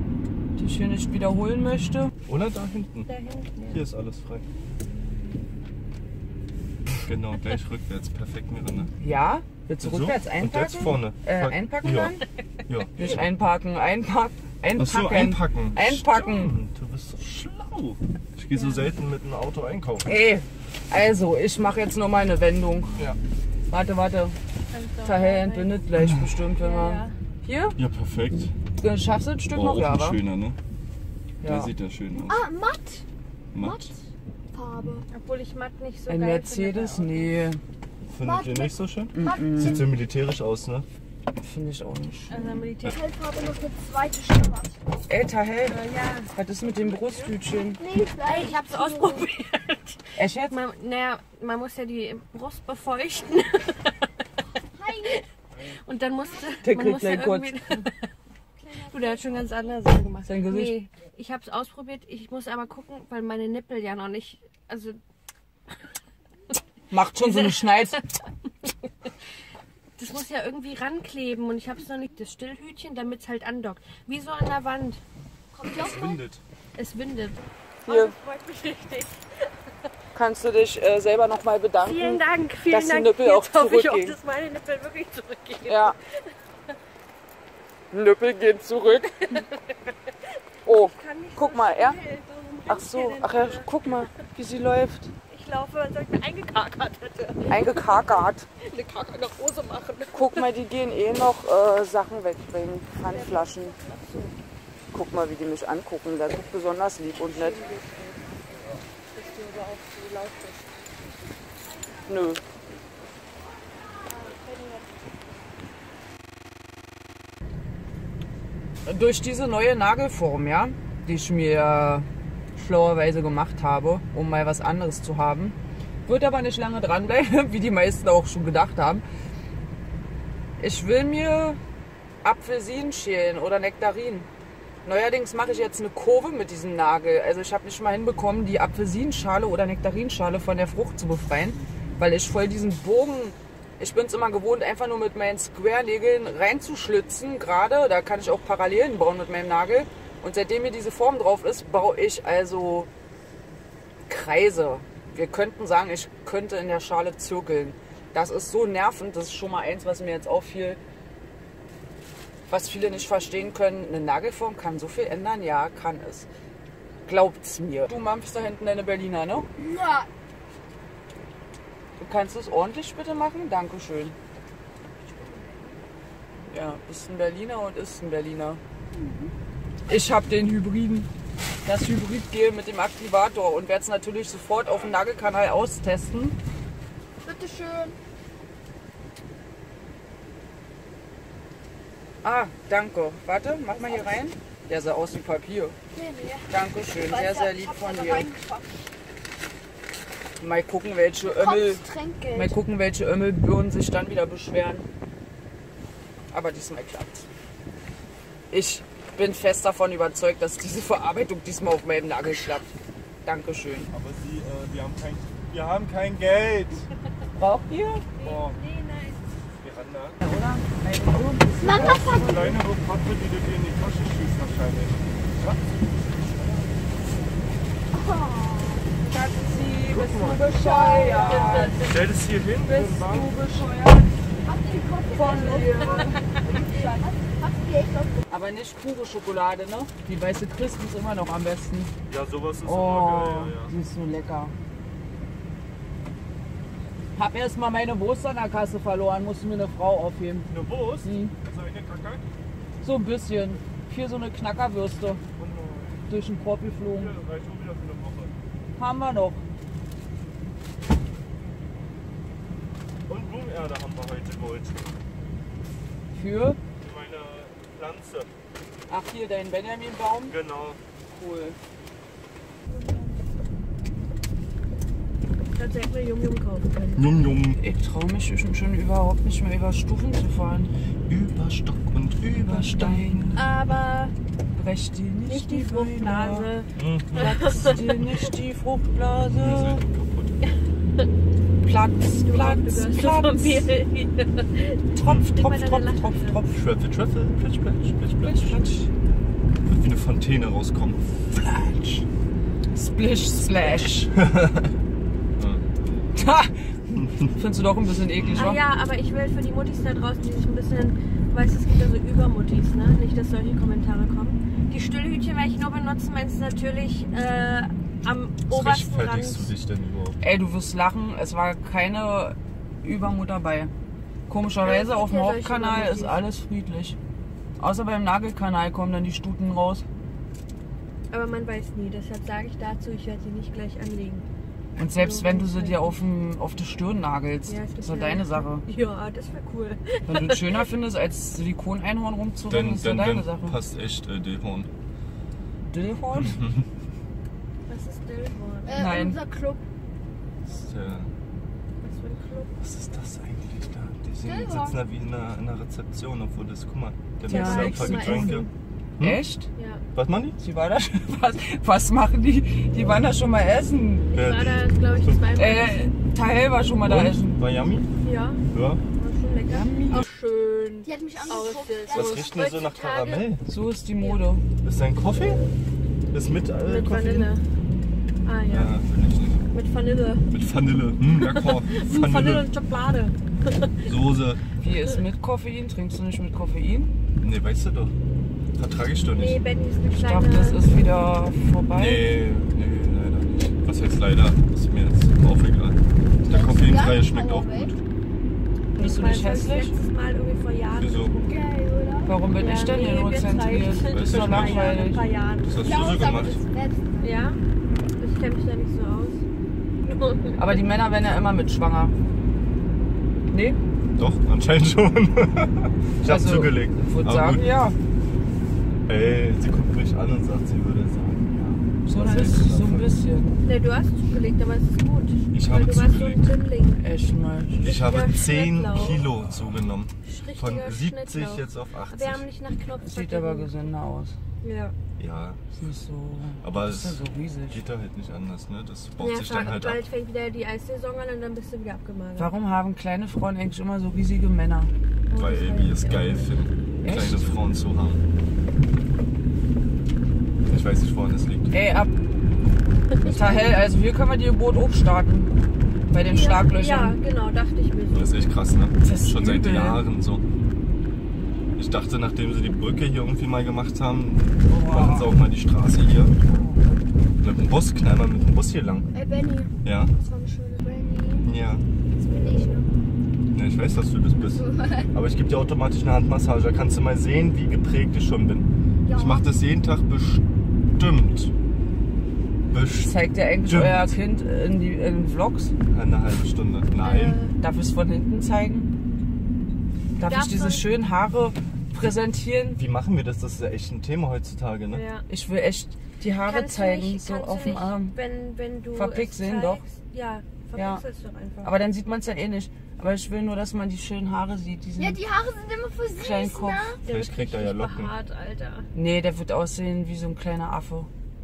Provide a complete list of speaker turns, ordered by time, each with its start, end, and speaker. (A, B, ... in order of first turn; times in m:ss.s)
0:00.6-0:02.1 A
0:02.2-0:03.1 B
0:03.1-0:03.8 C
0:03.7-0:04.5 B
0:07.0-0:08.9 B
0:09.0-0:12.2 A
0:09.8-0:12.2 B
0:12.7-0:12.9 B
0:13.0-0:16.6 A
0:14.8-0:20.1 B
0:18.6-0:18.8 C
0:20.0-0:23.0 A
0:23.7-0:24.4 A
0:24.7-0:25.8 C
0:25.0-0:27.8 A
0:26.6-0:27.2 C
0:27.8-0:28.5 B
0:28.8-0:30.2 A
0:29.5-0:30.6 B
0:31.4-0:31.7 A
0:31.4-0:32.4 B
0:32.3-0:33.0 D
0:33.5-0:33.9 B
0:33.6-0:34.0 D
0:34.5-0:35.1 D
0:35.1-0:37.3 C
0:36.1-0:37.6 A
0:38.1-0:40.9 B
0:38.2-0:39.8 D
0:39.1-0:39.8 A
0:41.4-0:42.5 A
0:42.3-0:43.0 C
0:42.8-0:44.8 D
0:45.1-0:47.8 A
0:45.7-0:46.3 C
0:47.8-0:49.3 D
0:48.2-0:54.1 C
0:50.2-0:50.5 A
0:54.7-0:55.2 D
0:55.0-0:58.0 C
0:56.6-0:57.5 A
0:58.7-0:59.2 D
0:58.7-1:05.0 C
1:00.2-1:00.8 A
1:06.9-1:08.0 A
1:07.2-1:08.0 C
1:10.0-1:15.0 C
1:15.5-1:16.2 D
1:15.7-1:16.4 B
1:16.8-1:19.5 C
1:17.9-1:18.2 A
1:20.1-1:24.2 A
1:21.8-1:26.3 C
1:25.7-1:26.0 A
1:27.9-1:29.5 A
1:28.8-1:29.6 C
1:30.6-1:34.1 C
1:30.7-1:32.0 A
1:32.7-1:35.1 A
1:35.3-1:38.1 C
1:37.5-1:38.5 A
1:38.6-1:40.5 C
1:40.1-1:43.8 A
1:43.1-1:44.4 C
1:44.9-1:47.6 A
1:47.2-1:48.3 C
1:49.1-1:50.9 C
1:52.1-1:52.4 A
1:58.9-2:09.0 A
2:10.6-2:11.6 A
2:12.2-2:14.3 A
2:14.8-2:32.9 A
2:34.1-2:40.8 A
2:42.5-2:46.3 A
2:47.1-2:49.5 A
2:49.6-2:50.1 D
2:52.0-2:54.2 A
2:55.1-2:55.8 D
2:56.5-2:58.6 A
2:58.9-2:59.3 D
2:59.9-3:01.1 A
3:01.6-3:06.4 A
3:04.6-3:05.0 B
3:07.2-3:08.0 D
3:12.2-3:15.8 A
3:15.9-3:18.9 D
3:16.5-3:18.3 A
3:20.4-3:21.8 A
3:21.3-3:22.6 D
3:22.3-3:24.9 A
3:26.3-3:27.3 A
3:28.5-3:32.7 A
3:33.2-3:33.9 A
3:33.9-3:36.9 B
3:37.4-3:38.0 A
3:38.2-3:39.2 C
3:38.2-3:38.6 B
3:39.6-3:40.2 B
3:40.2-3:42.6 A
3:41.6-3:42.5 D
3:41.7-3:46.7 B
3:47.9-3:48.9 D
3:49.0-3:51.8 A
3:49.9-3:50.4 B
3:50.4-3:51.8 D
3:51.1-3:51.9 C
3:51.8-3:53.4 B
3:52.6-3:54.1 A
3:54.4-3:58.2 D
3:55.1-3:56.2 A
3:56.4-3:56.8 B
3:58.3-4:01.9 A
4:02.1-4:03.7 B
4:02.6-4:04.6 A
4:07.2-4:10.5 A
4:10.5-4:12.2 B
4:11.0-4:11.4 A
4:12.8-4:15.2 A
4:15.4-4:16.0 B
4:16.1-4:17.1 A
4:16.9-4:18.3 B
4:18.8-4:19.4 A
4:23.1-4:24.8 B
4:26.1-4:26.6 A
4:26.8-4:28.3 B
4:28.9-4:30.4 A
4:30.3-4:30.8 B
4:31.1-4:31.6 A
4:32.7-4:33.2 D
4:35.6-4:37.1 C
4:37.0-4:37.6 B
4:37.6-4:40.7 A
4:41.1-4:43.7 B
4:42.4-4:43.4 A
4:43.4-4:44.1 C
4:44.6-4:46.5 A
4:45.3-4:48.1 C
4:46.8-4:47.4 B
4:47.1-4:49.8 A
4:49.3-4:50.4 B
4:51.6-4:53.6 A
4:52.2-4:54.8 C
4:54.9-4:56.6 A
4:55.0-4:55.3 B
4:55.4-4:56.4 C
4:56.5-4:58.7 B
4:58.2-4:58.9 A
4:59.6-5:02.0 B
5:02.7-5:04.1 A
5:04.2-5:04.7 B
5:05.4-5:05.6 B
5:06.1-5:08.6 A
5:07.0-5:07.3 B
5:08.1-5:08.5 B
5:08.4-5:19.5 C
5:18.5-5:20.2 B
5:20.2-5:23.7 A
5:24.3-5:27.0 A
5:24.6-5:26.2 C
5:27.6-5:29.8 A
5:31.1-5:34.2 C
5:34.8-5:38.7 A
5:35.0-5:36.0 C
5:37.5-5:40.6 C
5:40.1-5:43.6 A
5:42.4-5:44.7 B
5:45.7-5:46.4 A
5:46.2-5:46.6 B
5:47.7-5:48.9 C
5:48.6-5:49.6 D
5:48.8-5:49.2 A
5:50.4-5:51.1 B
5:51.8-5:52.6 C
5:52.6-5:59.2 B
5:54.2-5:54.8 D
5:57.3-5:58.4 A
5:57.3-5:58.5 C
5:59.0-5:59.5 A
5:59.6-5:59.8 C
5:59.9-6:00.4 B
6:00.4-6:04.1 A
6:04.1-6:05.9 C
6:04.2-6:05.2 B
6:05.4-6:07.4 A
6:06.8-6:07.9 B
6:08.0-6:08.4 C
6:08.5-6:08.8 B
6:09.0-6:13.3 C
6:09.5-6:10.0 A
6:10.8-6:12.7 D
6:11.9-6:13.4 B
6:13.5-6:14.4 A
6:14.6-6:15.4 B
6:16.1-6:17.3 B
6:16.6-6:17.4 C
6:18.2-6:18.8 C
6:18.5-6:19.4 B
6:19.5-6:20.3 C
6:20.3-6:22.5 B
6:21.2-6:23.9 C
6:23.8-6:24.4 B
6:24.6-6:26.9 A
6:27.2-6:27.9 B
6:28.6-6:29.4 B
6:29.2-6:30.6 C
6:29.9-6:32.0 A
6:31.7-6:37.8 B
6:36.2-6:37.7 D
6:38.8-6:39.8 A
6:38.8-6:41.5 C
6:40.8-6:41.1 B
6:41.2-6:42.1 D
6:42.1-6:45.0 A
6:42.4-6:45.9 C
6:43.9-6:44.8 B
6:45.4-6:46.4 B
6:45.6-6:47.2 D
6:47.0-6:47.4 C
6:48.0-6:49.2 C
6:49.8-6:50.6 C
6:50.4-6:51.9 A
6:53.3-6:53.6 A
6:54.0-6:57.4 B
6:56.0-6:57.8 A
6:58.9-7:02.9 B
7:01.8-7:03.4 A
7:02.0-7:02.5 C
7:03.4-7:06.8 C
7:05.3-7:06.2 B
7:06.8-7:07.7 A
7:07.6-7:09.1 C
7:07.6-7:12.2 B
7:10.0-7:13.5 C
7:12.8-7:14.2 A
7:14.4-7:14.7 C
7:15.0-7:15.4 B
7:15.6-7:17.6 A
7:16.4-7:19.8 B
7:19.0-7:22.3 C
7:22.2-7:24.7 A
7:25.1-7:26.2 C
7:25.1-7:28.0 B
7:26.8-7:27.3 A
7:30.5-7:31.5 B
7:31.5-7:31.9 A
7:32.9-7:33.4 C
7:33.0-7:35.3 A
7:35.9-7:37.0 A
7:36.0-7:38.3 C
7:37.9-7:40.2 B
7:38.8-7:39.8 A
7:41.6-7:46.2 B
7:44.5-7:45.1 A
7:46.3-7:46.6 A
7:47.2-7:48.9 B
7:48.9-7:51.3 D
7:49.6-7:49.9 B
7:51.2-7:51.6 B
7:52.0-7:52.7 D
7:53.3-8:01.3 B
7:54.3-7:54.9 D
7:58.9-7:59.2 D
8:02.5-8:03.0 B
8:02.8-8:05.5 A
8:03.5-8:03.9 B
8:05.7-8:07.2 B
8:06.8-8:07.4 C
8:07.4-8:08.7 A
8:10.0-8:12.6 A
8:10.0-8:10.6 C
8:12.6-8:14.8 B
8:14.7-8:15.0 C
8:15.1-8:17.9 A
8:16.2-8:21.5 C
8:18.8-8:19.6 A
8:20.6-8:20.8 A
8:21.4-8:25.0 A
8:24.8-8:26.8 D
8:26.0-8:26.8 A
8:26.8-8:28.7 C
8:26.9-8:27.9 B
8:28.7-8:30.9 A